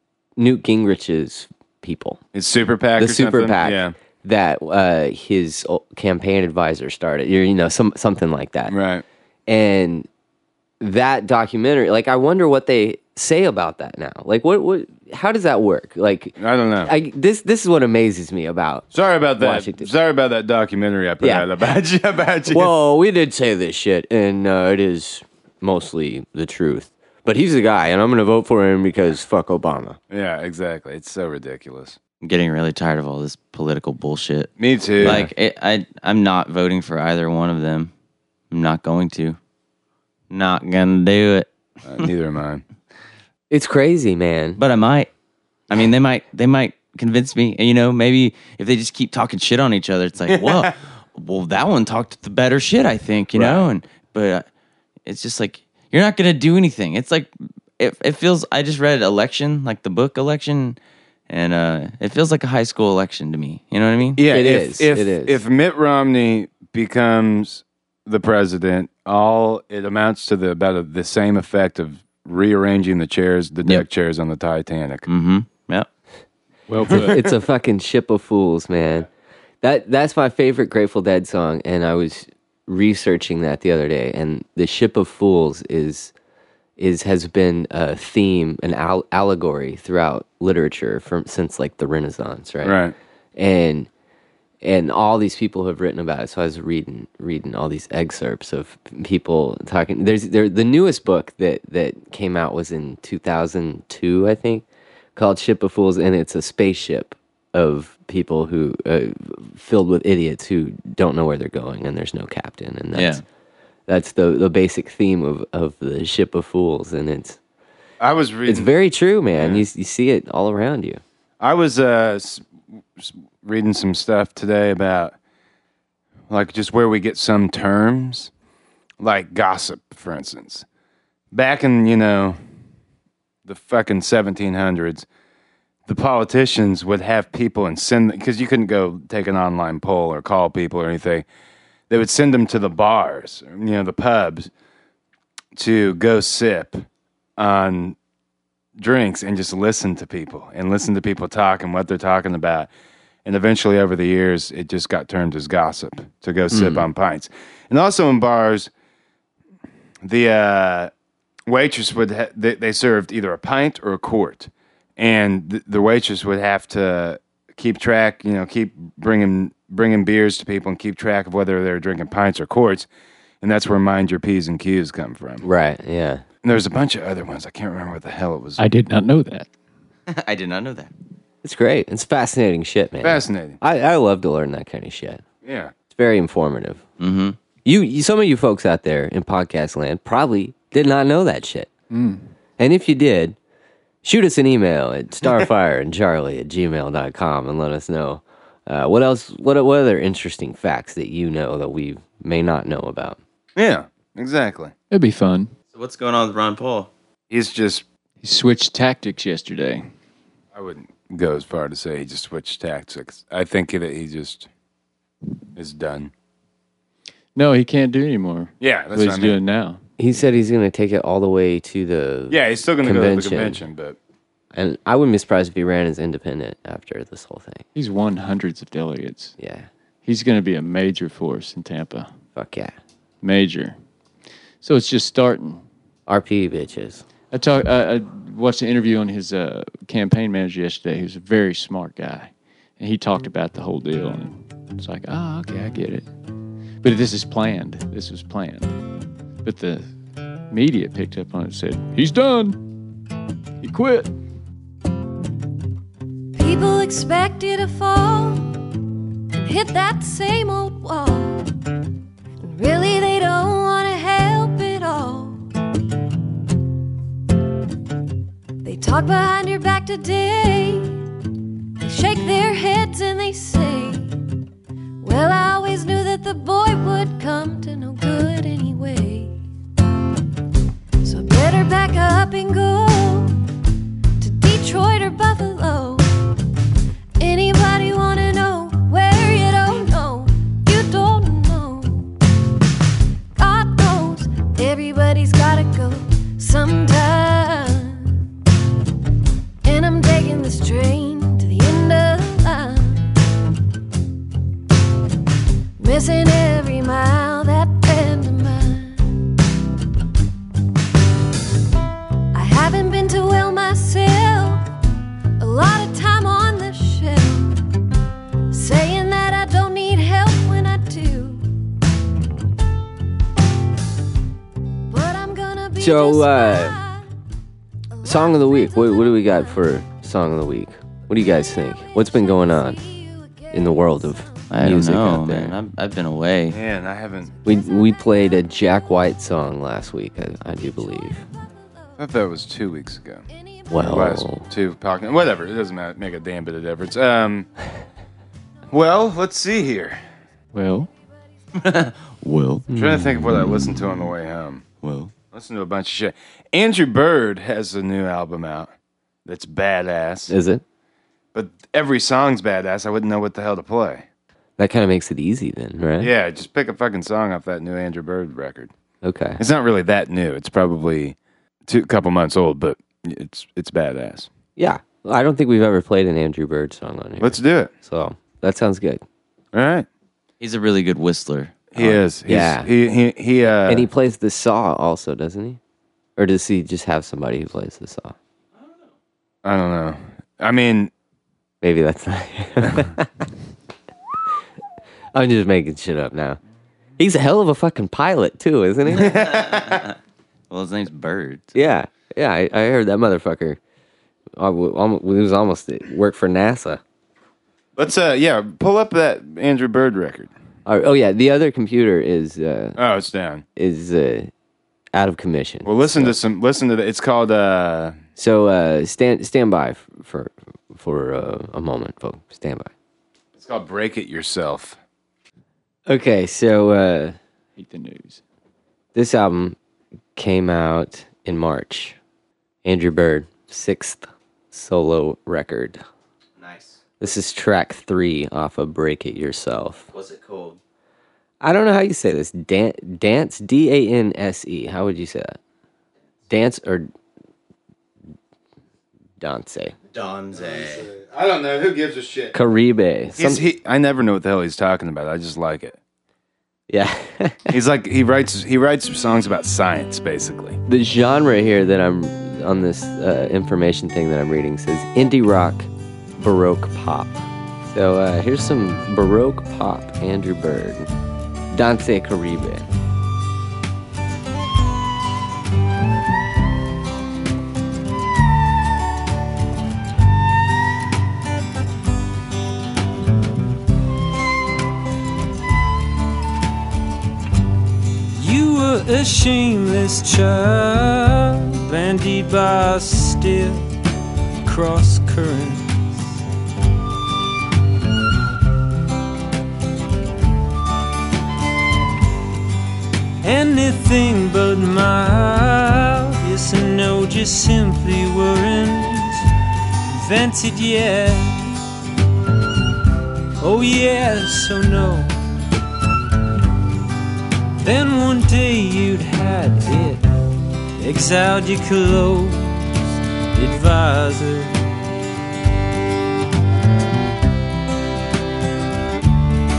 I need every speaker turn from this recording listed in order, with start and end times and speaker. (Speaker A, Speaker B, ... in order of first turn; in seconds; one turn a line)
Speaker A: 0.4-2.2
Speaker B: 2.3-3.9
Speaker A: 3.0-8.8
Speaker B: 8.7-9.1
Speaker A: 9.5-10.1
Speaker A: 10.8-19.9
Speaker B: 16.4-16.9
Speaker B: 18.9-22.7
Speaker A: 21.2-21.5
Speaker A: 22.5-30.0
Speaker B: 30.1-32.0
Speaker C: 32.2-37.9
Speaker B: 34.6-35.3
Speaker A: 35.0-35.3
Speaker C: 38.5-39.4
Speaker C: 40.3-41.5
Speaker B: 41.8-42.6
Speaker A: 43.5-44.6
Speaker C: 44.6-45.1
Speaker C: 45.7-54.5
Speaker B: 50.3-50.7
Speaker B: 53.4-53.7
Speaker C: 55.1-60.8
Speaker C: 61.3-64.2
Speaker B: 64.2-75.1
Speaker A: 64.3-65.4
Speaker C: 75.1-75.9
Speaker D: 76.7-77.2
Speaker A: 76.9-79.1
Speaker A: 79.6-86.1
Speaker A: 86.8-92.8
Speaker B: 92.6-92.9
Speaker A: 93.4-93.9
Speaker A: 94.6-113.2
Speaker C: 112.9-113.2
Speaker A: 113.9-117.4
Speaker B: 118.0-118.7
Speaker A: 118.5-121.0
Speaker B: 119.3-119.6
Speaker B: 121.4-125.2
Speaker B: 126.3-128.3
Speaker B: 129.0-130.7
Speaker B: 131.3-132.4
Speaker B: 133.5-135.1
Speaker B: 135.9-141.2
Speaker B: 141.9-144.5
Speaker B: 145.6-146.8
Speaker B: 147.4-148.0
Speaker B: 148.8-152.7
Speaker B: 153.2-158.7
Speaker A: 156.5-156.9
Speaker B: 160.0-160.9
Speaker B: 161.5-172.9
Speaker B: 173.4-175.4
Speaker A: 175.4-176.2
Speaker B: 176.4-178.6
Speaker D: 178.6-179.5
Speaker C: 180.1-180.9
Speaker A: 181.4-185.2
Speaker B: 183.0-183.6
Speaker B: 185.4-185.7
Speaker A: 185.9-186.8
Speaker C: 187.0-187.4
Speaker A: 187.7-191.7
Speaker D: 191.9-192.2
Speaker A: 192.6-193.4
Speaker A: 194.0-203.2
Speaker B: 203.6-204.7
Speaker D: 204.9-205.5
Speaker C: 205.7-206.9
Speaker B: 207.3-207.8
Speaker D: 208.2-209.9
Speaker B: 210.5-214.5
Speaker B: 215.6-216.1
Speaker D: 217.4-219.8
Speaker B: 218.6-219.4
Speaker A: 220.0-223.6
Speaker B: 222.3-224.0
Speaker A: 224.5-227.7
Speaker D: 227.8-229.3
Speaker A: 229.4-229.7
Speaker D: 230.1-232.1
Speaker A: 232.4-232.8
Speaker D: 233.2-233.8
Speaker D: 234.6-235.6
Speaker A: 236.1-237.0
Speaker D: 237.3-246.1
Speaker D: 246.8-248.8
Speaker D: 249.4-249.9
Speaker D: 250.5-252.6
Speaker D: 253.6-254.1
Speaker E: 256.4-258.6
Speaker E: 259.3-261.5
Speaker E: 262.4-265.4
Speaker E: 268.6-271.0
Speaker E: 271.8-274.1
Speaker E: 275.0-279.4
Speaker E: 281.0-283.4
Speaker E: 284.2-286.2
Speaker E: 287.2-292.1
Speaker E: 293.4-298.2
Speaker E: 299.6-303.1
Speaker E: 305.8-309.2
Speaker E: 312.3-314.6
Speaker E: 315.4-317.6
Speaker E: 318.5-321.5
Speaker E: 324.9-327.0
Speaker A: 325.8-326.8
Speaker E: 328.0-329.5
Speaker A: 328.0-332.8
Speaker E: 331.9-333.9
Speaker A: 333.5-335.6
Speaker C: 334.5-336.6
Speaker B: 336.5-337.3
Speaker A: 337.4-341.2
Speaker E: 340.7-341.1
Speaker B: 342.0-343.2
Speaker A: 343.7-344.4
Speaker B: 343.8-347.5
Speaker B: 348.7-350.0
Speaker D: 350.5-350.9
Speaker C: 351.6-352.7
Speaker B: 352.7-354.6
Speaker C: 354.8-355.1
Speaker B: 355.3-358.7
Speaker B: 359.3-360.3
Speaker A: 360.3-360.6
Speaker B: 361.3-364.1
Speaker A: 364.6-366.1
Speaker B: 366.0-368.7
Speaker A: 369.0-369.4
Speaker B: 369.4-371.2
Speaker B: 371.7-374.3
Speaker A: 374.6-379.0
Speaker B: 377.2-377.7
Speaker B: 379.5-379.9
Speaker C: 380.4-382.0
Speaker B: 381.7-383.9
Speaker A: 382.3-382.7
Speaker A: 383.7-385.6
Speaker A: 386.2-388.1
Speaker C: 388.6-388.8
Speaker B: 389.4-390.9
Speaker A: 391.6-393.3
Speaker A: 395.1-396.4
Speaker A: 397.0-399.2
Speaker B: 398.9-399.9
Speaker C: 399.5-399.9
Speaker C: 400.5-401.6
Speaker A: 401.6-403.6
Speaker A: 404.4-406.8
Speaker B: 407.8-410.3
Speaker A: 410.7-412.8
Speaker B: 412.8-413.4
Speaker A: 413.6-414.3
Speaker A: 414.9-416.2
Speaker B: 415.6-418.0
Speaker A: 418.2-422.7
Speaker B: 423.4-424.8
Speaker A: 425.9-427.2
Speaker D: 427.6-428.2
Speaker A: 428.9-429.6
Speaker A: 430.2-432.0
Speaker A: 432.6-435.8
Speaker C: 436.4-436.8
Speaker A: 437.0-439.9
Speaker C: 439.9-440.6
Speaker A: 441.4-445.4
Speaker A: 446.3-446.9
Speaker A: 449.2-449.8
Speaker C: 449.9-450.9
Speaker B: 450.4-452.4
Speaker A: 452.3-453.5
Speaker B: 453.2-455.8
Speaker A: 456.7-457.6
Speaker B: 457.5-460.6
Speaker A: 460.7-470.9
Speaker A: 471.5-472.7
Speaker F: 488.1-493.7
Speaker F: 494.4-496.1
Speaker F: 503.2-509.2
Speaker F: 509.9-511.5
Speaker F: 513.4-515.1
Speaker F: 517.6-520.1
Speaker F: 520.8-522.6
Speaker F: 523.3-524.6